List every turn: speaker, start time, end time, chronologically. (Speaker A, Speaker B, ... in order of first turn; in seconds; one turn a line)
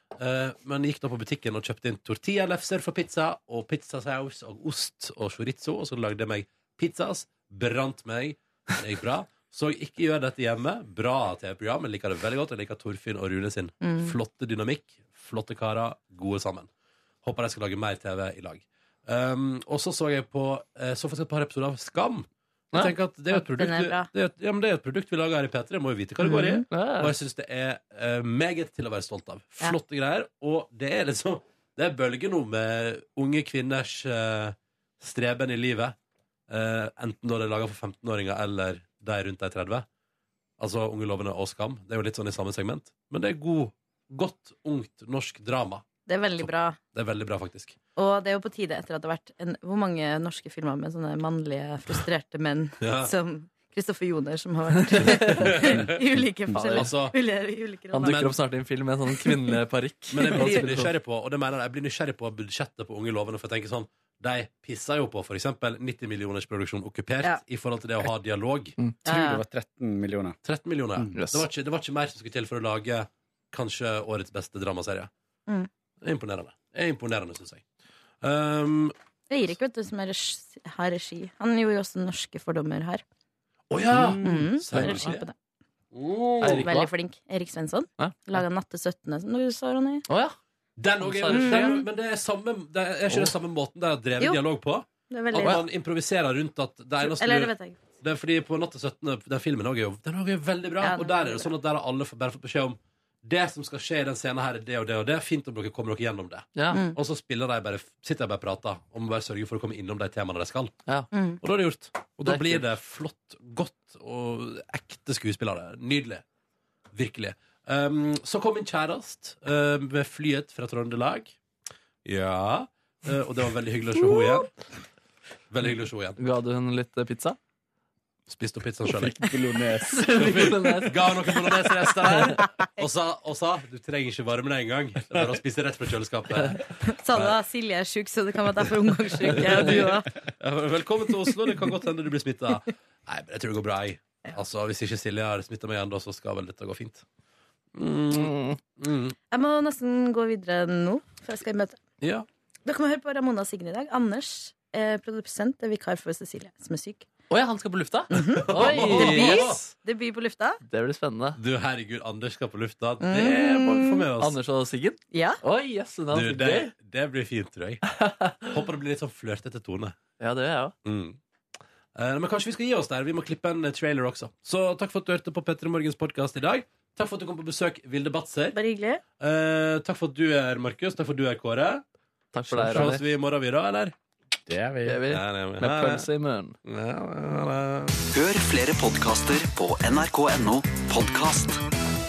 Speaker A: 0.2-16.7
Speaker B: 13.8-14.2
Speaker A: 17.2-36.0
Speaker B: 23.3-24.1
Speaker B: 26.2-26.6
Speaker C: 26.7-27.1
Speaker A: 36.5-39.9
Speaker A: 40.6-45.9
Speaker B: 46.0-46.8
Speaker A: 46.4-47.8
Speaker B: 48.0-58.1
Speaker A: 52.8-53.1
Speaker C: 54.8-55.6
Speaker A: 55.0-56.0
Speaker C: 56.5-56.9
Speaker A: 56.7-57.2
Speaker C: 57.9-60.9
Speaker A: 58.0-58.4
Speaker A: 60.1-68.8
Speaker D: 69.0-70.4
Speaker B: 69.0-69.4
Speaker A: 70.4-75.1
Speaker C: 71.1-71.4
Speaker A: 76.0-77.6
Speaker A: 78.2-78.9
Speaker B: 79.3-83.0
Speaker A: 83.7-85.2
Speaker D: 83.9-84.3
Speaker B: 84.2-85.3
Speaker C: 84.7-85.2
Speaker A: 85.9-86.9
Speaker C: 86.4-86.7
Speaker B: 86.6-90.0
Speaker C: 88.0-88.4
Speaker C: 90.1-90.3
Speaker A: 90.8-110.8
Speaker C: 91.0-91.8
Speaker B: 91.3-91.8
Speaker B: 95.1-95.6
Speaker C: 95.4-95.6
Speaker B: 97.0-97.8
Speaker B: 100.8-101.5
Speaker C: 106.5-106.8
Speaker B: 106.7-107.0
Speaker B: 111.1-111.4
Speaker A: 111.4-116.2
Speaker C: 112.2-112.6
Speaker A: 116.9-121.4
Speaker A: 122.0-124.5
Speaker A: 125.5-126.2
Speaker C: 126.2-127.4
Speaker A: 128.3-129.2
Speaker D: 128.9-130.1
Speaker C: 129.9-131.5
Speaker A: 130.1-137.4
Speaker B: 136.8-140.1
Speaker A: 139.2-147.0
Speaker A: 147.7-149.2
Speaker C: 148.1-148.6
Speaker B: 149.3-151.8
Speaker A: 152.0-152.3
Speaker B: 152.6-157.1
Speaker C: 157.3-159.7
Speaker A: 158.1-159.6
Speaker B: 158.1-160.6
Speaker C: 160.7-161.4
Speaker A: 161.4-164.4
Speaker B: 163.0-164.1
Speaker C: 164.2-166.7
Speaker B: 165.1-165.4
Speaker A: 166.1-167.9
Speaker C: 168.0-168.5
Speaker A: 168.4-170.0
Speaker C: 170.2-170.7
Speaker A: 170.8-171.2
Speaker A: 171.9-178.6
Speaker B: 178.5-179.0
Speaker A: 179.2-181.8
Speaker C: 182.3-183.0
Speaker A: 182.5-183.9
Speaker D: 184.5-185.0
Speaker C: 184.8-186.6
Speaker A: 185.1-186.1
Speaker A: 186.6-188.0
Speaker E: 188.1-191.6